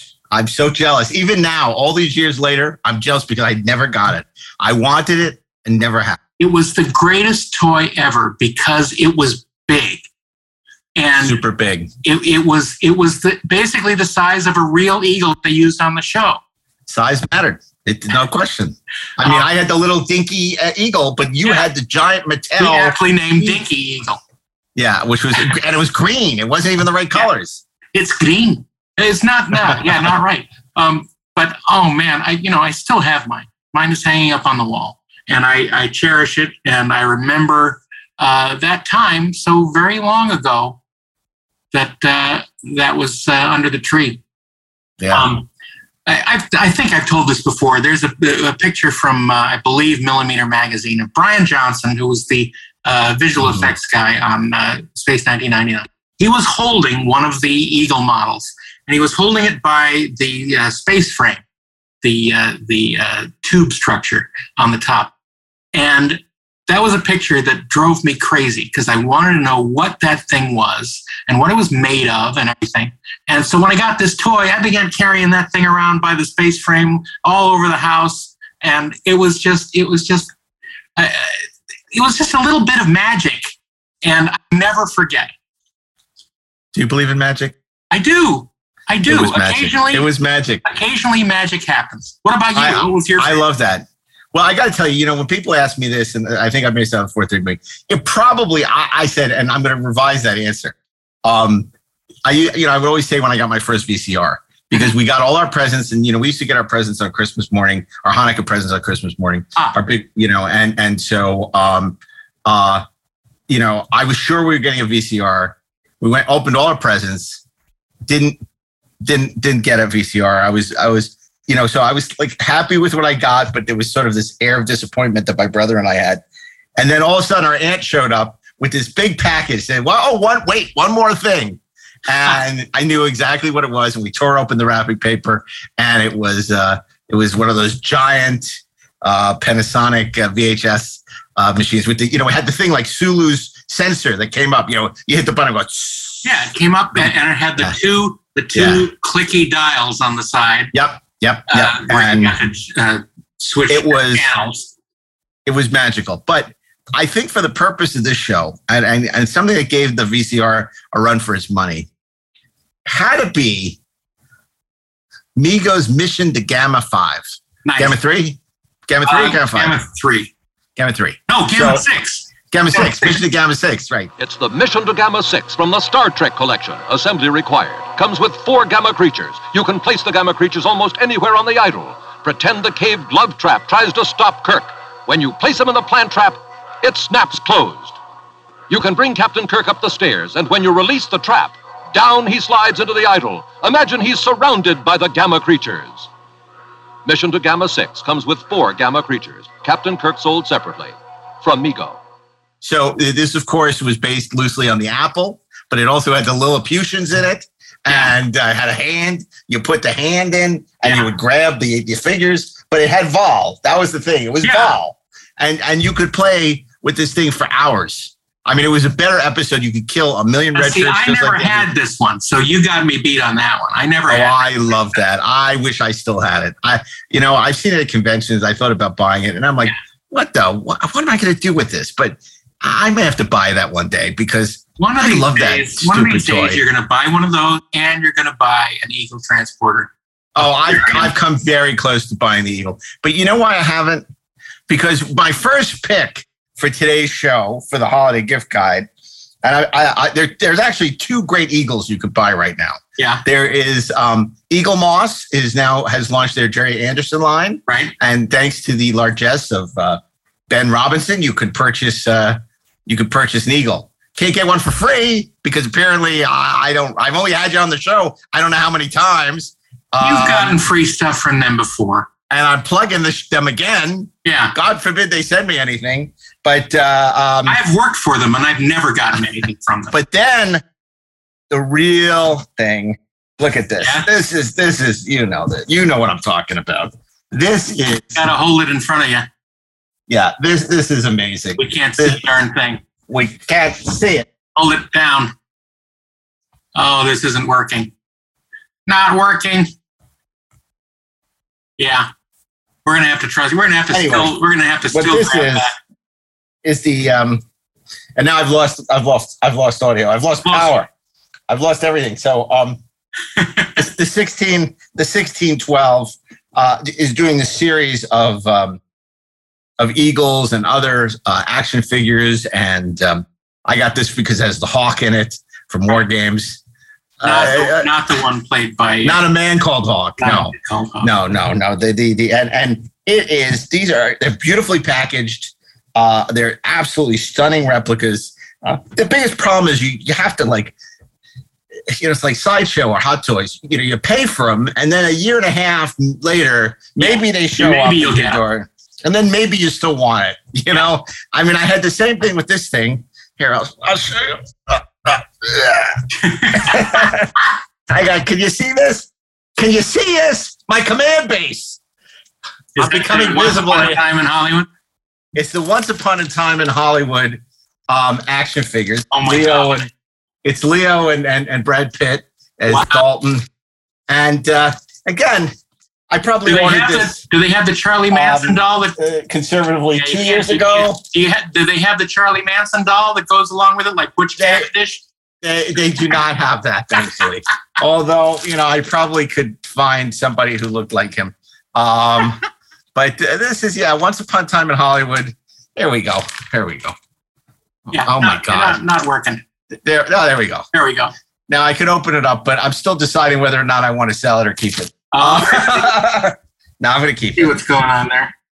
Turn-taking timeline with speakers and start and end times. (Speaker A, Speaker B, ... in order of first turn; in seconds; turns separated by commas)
Speaker A: 0.3-6.2, Speaker B: 6.4-10.1, Speaker B: 11.0-11.4, Speaker A: 11.2-11.9, Speaker B: 12.0-16.4, Speaker A: 16.9-23.6, Speaker B: 19.2-19.5, Speaker B: 21.4-21.7, Speaker B: 22.6-24.2, Speaker A: 24.8-27.6, Speaker B: 27.9-40.8, Speaker B: 41.7-44.2, Speaker A: 45.0-45.3, Speaker B: 45.1-45.5, Speaker B: 46.1-61.4, Speaker A: 53.4-53.7, Speaker B: 62.0-65.1, Speaker B: 65.7-80.3, Speaker B: 81.0-85.3, Speaker A: 86.7-87.6, Speaker B: 87.9-90.1, Speaker A: 89.1-90.6, Speaker B: 90.7-93.4, Speaker A: 92.5-101.7, Speaker A: 102.2-112.8, Speaker A: 113.5-117.4, Speaker A: 118.1-118.4, Speaker A: 119.0-126.2, Speaker A: 126.8-146.3, Speaker B: 146.2-150.7, Speaker A: 146.9-147.8, Speaker A: 148.6-148.9, Speaker A: 150.7-152.4, Speaker B: 151.5-154.7, Speaker A: 153.7-154.3, Speaker A: 155.5-161.9, Speaker A: 162.8-163.8, Speaker A: 165.4-169.8, Speaker B: 167.7-168.0, Speaker B: 169.1-170.3, Speaker A: 170.8-171.8, Speaker B: 171.3-173.2, Speaker A: 172.5-174.1, Speaker C: 174.2-188.0, Speaker C: 188.7-196.1, Speaker C: 197.1-202.0, Speaker A: 202.6-221.7, Speaker B: 207.9-208.1, Speaker B: 214.4-214.8, Speaker B: 220.5-224.5, Speaker A: 224.1-236.6, Speaker B: 234.8-241.1, Speaker A: 240.3-244.1, Speaker A: 244.7-248.9, Speaker A: 249.4-270.6, Speaker B: 253.0-253.2, Speaker B: 257.7-257.9, Speaker B: 270.0-272.1, Speaker A: 272.3-277.6, Speaker B: 274.2-274.6, Speaker B: 277.5-280.0, Speaker A: 279.9-280.6, Speaker A: 281.5-288.3, Speaker B: 283.8-284.1, Speaker B: 288.1-289.3, Speaker A: 290.1-292.2, Speaker B: 291.6-292.8, Speaker A: 293.1-294.3, Speaker B: 294.6-295.3, Speaker B: 296.8-297.9, Speaker B: 298.9-299.7, Speaker B: 301.8-302.1, Speaker B: 302.9-305.8, Speaker A: 303.9-304.4, Speaker A: 304.9-305.7, Speaker A: 306.6-307.4, Speaker A: 308.2-310.9, Speaker B: 310.4-310.7, Speaker A: 311.5-312.8, Speaker B: 313.4-313.8, Speaker A: 313.8-318.8, Speaker A: 319.8-326.6, Speaker A: 327.2-327.9, Speaker B: 327.2-329.2, Speaker A: 329.0-340.8, Speaker B: 330.2-331.1, Speaker A: 341.9-356.0, Speaker B: 347.0-348.4, Speaker B: 356.1-357.1, Speaker A: 356.5-357.3, Speaker A: 357.9-361.8, Speaker A: 362.8-364.0, Speaker B: 362.8-364.7, Speaker A: 365.4-369.9, Speaker B: 369.1-369.9, Speaker A: 370.4-373.5, Speaker B: 372.7-373.1, Speaker A: 374.1-375.5, Speaker A: 376.1-377.2, Speaker B: 376.5-379.0, Speaker A: 378.1-381.0, Speaker B: 379.9-385.0, Speaker A: 384.4-384.7, Speaker A: 385.4-392.4, Speaker A: 392.9-396.9, Speaker A: 397.9-398.8, Speaker B: 397.9-399.4, Speaker A: 399.7-400.7, Speaker B: 400.7-401.1, Speaker A: 401.5-407.6, Speaker B: 405.1-405.9, Speaker B: 407.4-408.3